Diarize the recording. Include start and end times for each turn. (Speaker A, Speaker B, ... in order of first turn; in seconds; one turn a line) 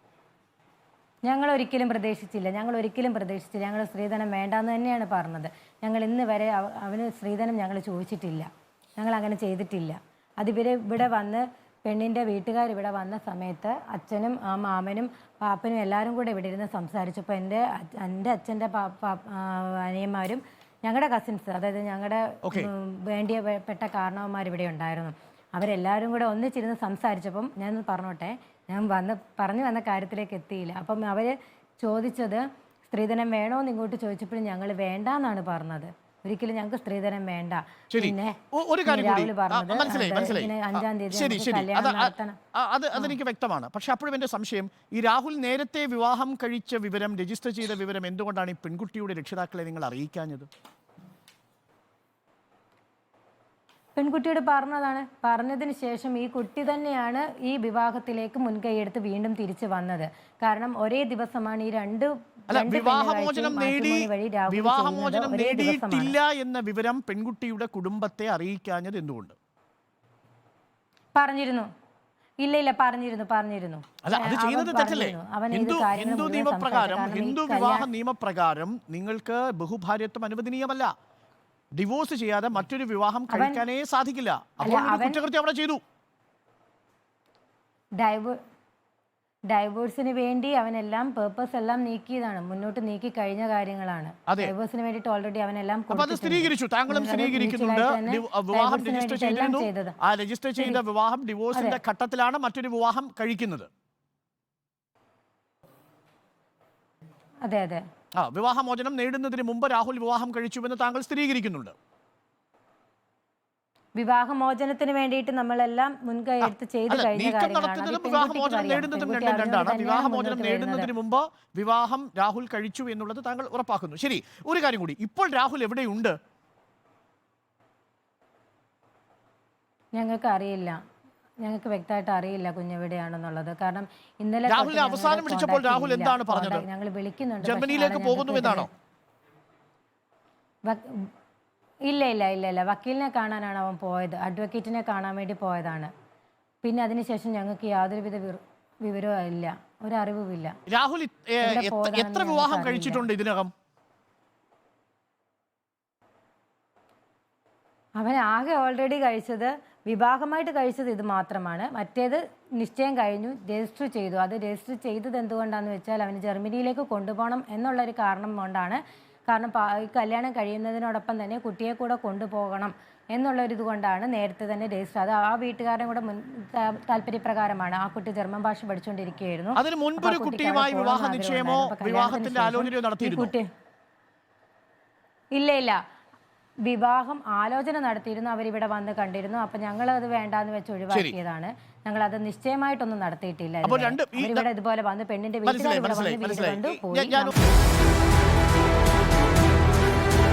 Speaker A: 1.2-42.4
Speaker B: 22.4-22.7
Speaker B: 37.9-50.5
Speaker A: 54.0-66.2
Speaker B: 62.5-69.3
Speaker A: 71.2-71.7
Speaker A: 72.4-77.9
Speaker B: 74.0-80.9
Speaker B: 81.7-85.8
Speaker A: 83.3-83.6
Speaker A: 84.6-85.2
Speaker A: 88.0-88.4
Speaker A: 89.5-100.0
Speaker B: 94.3-94.5
Speaker B: 95.9-103.7
Speaker A: 101.5-101.8
Speaker A: 107.5-107.8
Speaker B: 108.1-111.7
Speaker A: 114.0-120.9
Speaker B: 116.4-126.2
Speaker A: 129.9-130.8
Speaker A: 131.4-138.7
Speaker B: 134.5-136.7
Speaker B: 137.4-138.7
Speaker A: 140.7-141.1
Speaker A: 141.9-145.9
Speaker A: 146.6-150.6
Speaker B: 150.7-153.5
Speaker A: 151.4-153.1
Speaker A: 158.0-183.5
Speaker B: 179.6-183.3
Speaker A: 185.3-185.8
Speaker A: 186.7-197.3
Speaker B: 193.6-194.5
Speaker B: 195.4-197.3